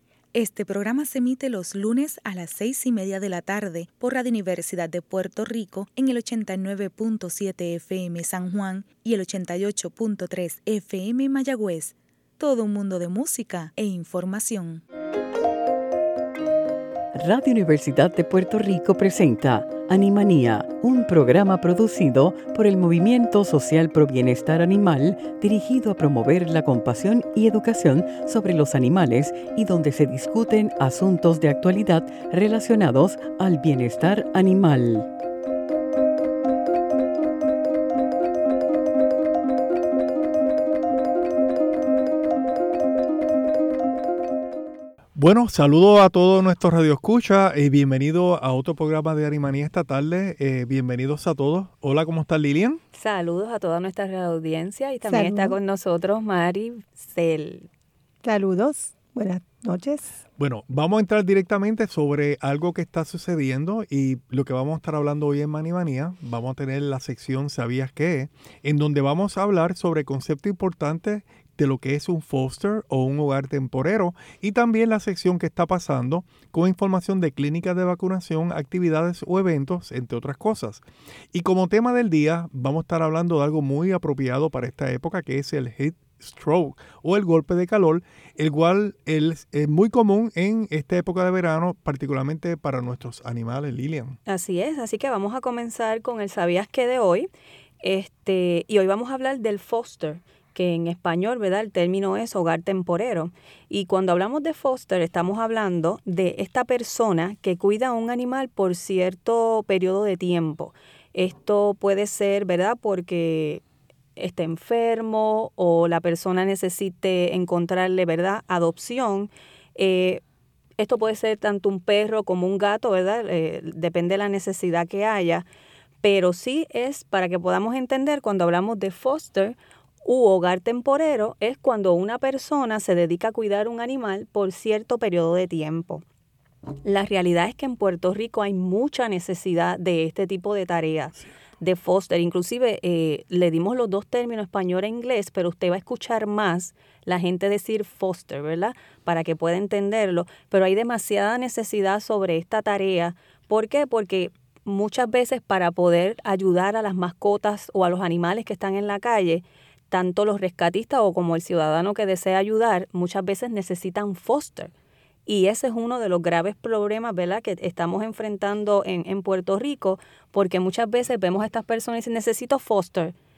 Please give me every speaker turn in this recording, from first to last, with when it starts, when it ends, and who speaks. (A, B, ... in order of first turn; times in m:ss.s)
0:00.3-0:14.8 A
0:17.1-0:35.1 B
0:45.1-0:52.8 C
0:52.9-0:57.7 D
0:55.0-0:55.6 E
0:58.2-1:00.2 E
1:00.4-1:34.2 C
1:34.3-1:37.3 D
1:37.8-1:53.6 D
1:54.2-2:00.2 D
2:00.8-2:05.4 D
2:06.0-2:16.0 D
2:16.8-2:44.7 D
2:45.2-2:53.1 D